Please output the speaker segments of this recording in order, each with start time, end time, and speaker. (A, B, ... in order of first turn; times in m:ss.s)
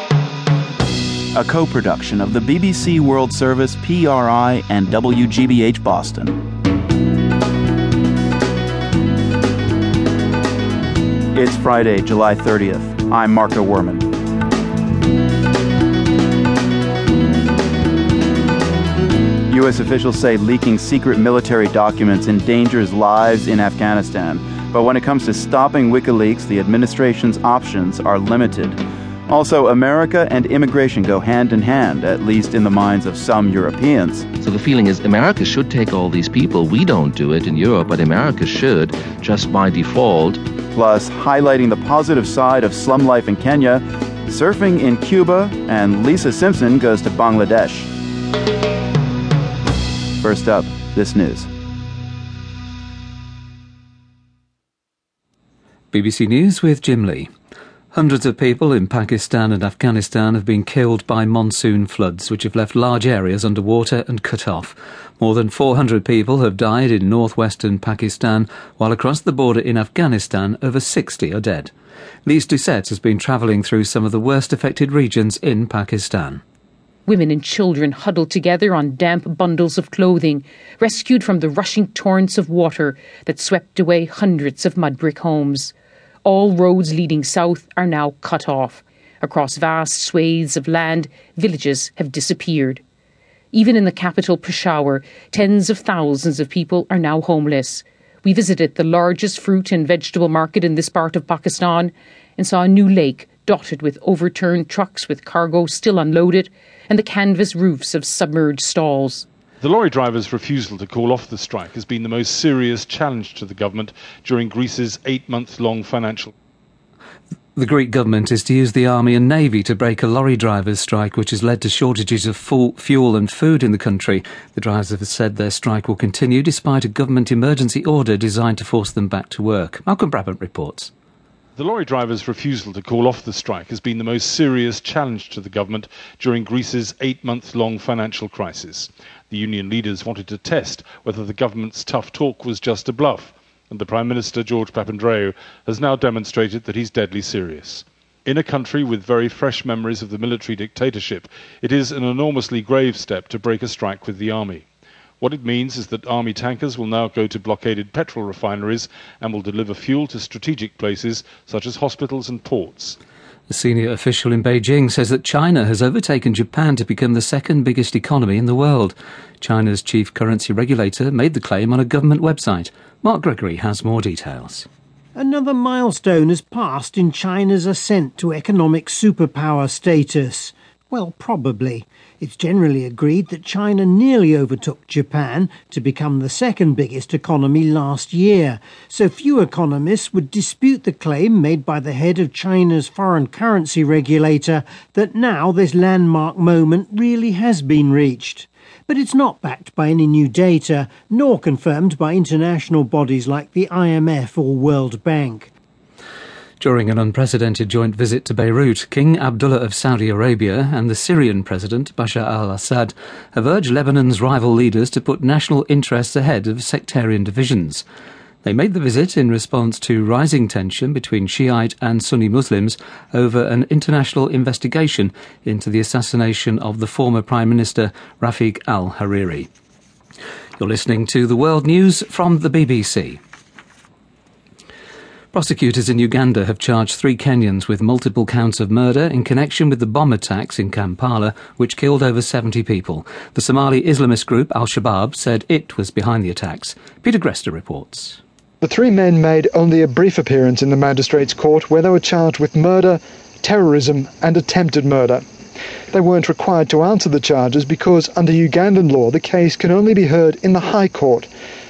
0:01.3-0:06.4 A
0:11.3-0:14.1 A
0:19.5-0:34.3 A
0:34.4-0:40.4 B
0:40.7-0:47.9 A
0:50.2-0:51.5 A
0:55.9-0:57.3 C
0:57.9-1:11.7 C
1:12.2-1:16.4 C
1:17.0-1:32.8 D
1:33.5-1:49.3 D
1:49.6-1:56.3 E
1:57.6-2:10.9 C
2:11.6-2:34.6 E
2:35.2-2:43.0 E
2:43.5-2:54.6 C
2:55.2-3:25.5 F
3:26.6-3:37.8 C
3:38.4-3:49.5 C
3:50.6-3:53.2 C
3:55.3-4:08.2 C
4:08.6-4:15.2 G
4:15.9-4:21.3 G